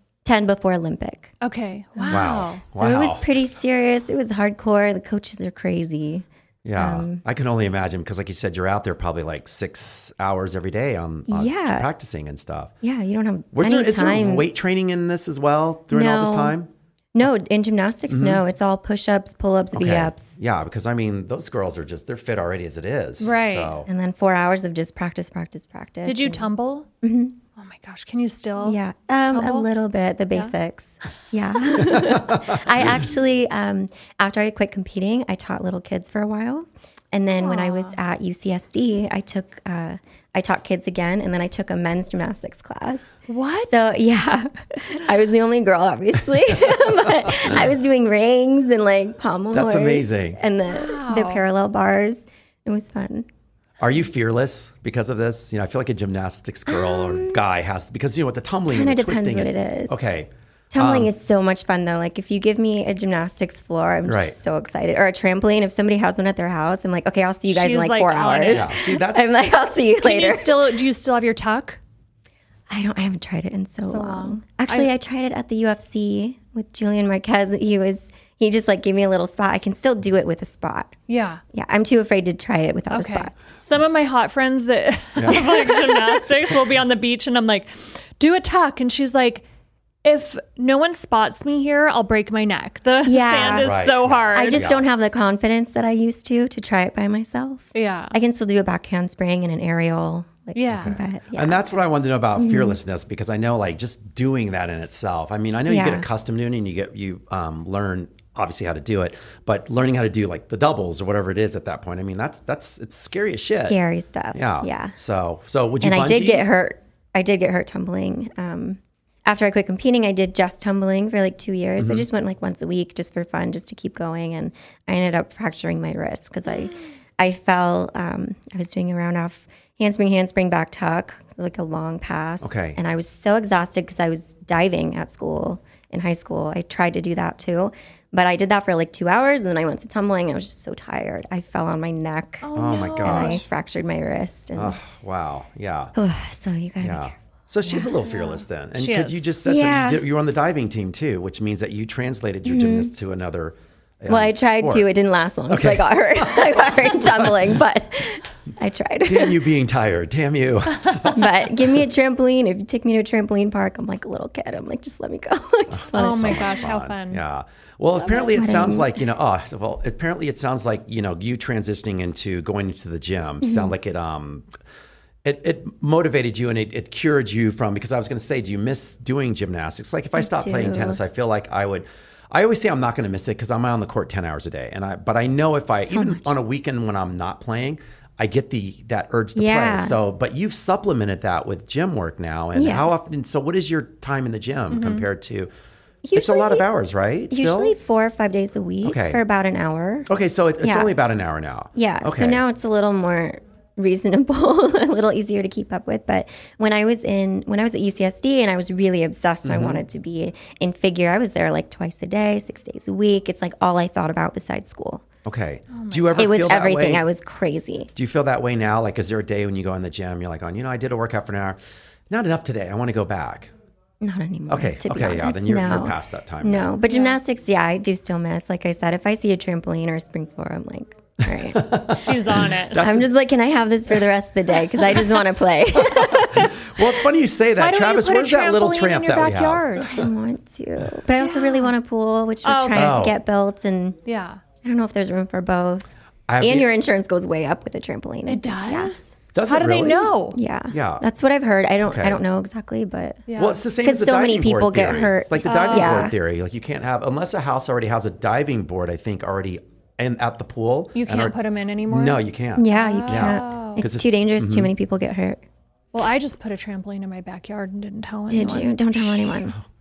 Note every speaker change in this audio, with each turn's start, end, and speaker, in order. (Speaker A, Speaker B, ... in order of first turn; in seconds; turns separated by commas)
Speaker A: 0.2-1.3, Speaker B: 1.4-2.6, Speaker A: 1.9-7.2, Speaker C: 2.1-3.3, Speaker C: 6.6-12.7, Speaker A: 11.3-11.9, Speaker A: 12.8-14.5, Speaker C: 13.5-16.7, Speaker A: 15.9-16.6, Speaker A: 17.1-20.4, Speaker C: 18.1-18.4, Speaker C: 19.7-23.9, Speaker B: 23.2-23.8, Speaker A: 23.9-26.5, Speaker B: 26.0-26.9, Speaker A: 27.0-27.4, Speaker B: 27.6-29.7, Speaker A: 28.6-43.1, Speaker C: 32.0-32.9, Speaker B: 37.4-38.0, Speaker B: 43.3-43.9, Speaker A: 43.7-53.3, Speaker C: 49.5-50.4, Speaker B: 50.7-51.4, Speaker C: 53.8-61.1, Speaker A: 56.7-57.4, Speaker A: 58.7-60.0, Speaker A: 60.7-70.6, Speaker C: 64.0-64.3, Speaker B: 67.5-68.7, Speaker C: 68.5-69.4, Speaker B: 70.0-71.8, Speaker A: 72.7-81.0, Speaker B: 73.8-74.9, Speaker B: 81.1-81.4, Speaker A: 81.5-83.3, Speaker B: 82.9-89.4, Speaker A: 85.3-86.2, Speaker B: 90.0-94.7, Speaker A: 93.0-93.8, Speaker C: 93.5-94.8, Speaker A: 94.3-101.6, Speaker B: 97.7-98.2, Speaker B: 100.5-100.9, Speaker C: 100.7-113.8, Speaker A: 102.3-102.8, Speaker A: 105.7-106.1, Speaker A: 113.7-114.9, Speaker C: 114.3-116.5, Speaker A: 115.8-144.8, Speaker C: 121.8-122.0, Speaker C: 132.4-132.8, Speaker B: 142.4-143.4, Speaker C: 142.5-143.4, Speaker C: 144.5-145.9, Speaker A: 145.9-148.1, Speaker C: 146.8-154.9, Speaker B: 148.3-149.3, Speaker A: 149.4-150.0, Speaker A: 152.4-152.9, Speaker A: 154.1-159.5, Speaker C: 155.5-157.5, Speaker C: 159.1-161.8, Speaker A: 161.1-166.6, Speaker C: 165.7-174.5, Speaker B: 165.9-167.2, Speaker B: 168.0-168.3, Speaker A: 168.1-169.0, Speaker A: 173.4-173.7, Speaker C: 175.2-195.5, Speaker A: 180.2-181.0, Speaker A: 185.7-186.4, Speaker A: 189.3-190.0, Speaker A: 192.5-192.9, Speaker B: 194.7-195.1, Speaker A: 196.0-196.6, Speaker C: 196.1-197.7, Speaker A: 197.3-200.1, Speaker C: 198.8-199.2, Speaker C: 200.1-202.4, Speaker A: 200.6-200.9, Speaker A: 201.7-215.0, Speaker C: 209.4-209.8, Speaker C: 215.2-217.0, Speaker B: 215.7-216.3, Speaker A: 216.2-217.9, Speaker C: 217.9-221.6, Speaker C: 222.1-223.5, Speaker A: 224.0-231.8, Speaker C: 224.5-226.8, Speaker B: 226.9-227.2, Speaker C: 231.3-233.1, Speaker B: 231.9-232.8, Speaker A: 232.7-236.5, Speaker C: 235.8-240.1, Speaker B: 237.6-240.0, Speaker A: 239.9-244.0, Speaker B: 241.2-241.7, Speaker B: 242.4-243.0, Speaker C: 242.7-243.2, Speaker B: 244.0-244.4, Speaker A: 244.6-245.9, Speaker C: 246.3-246.7, Speaker A: 246.4-249.0, Speaker B: 248.2-250.4, Speaker C: 249.3-250.1, Speaker A: 250.3-256.1, Speaker C: 250.7-251.0, Speaker C: 251.8-252.2, Speaker B: 253.3-253.6, Speaker C: 253.4-261.4, Speaker B: 255.4-256.1, Speaker B: 260.9-263.8, Speaker C: 261.9-264.7, Speaker A: 262.6-265.4, Speaker B: 265.9-269.3, Speaker A: 268.3-269.6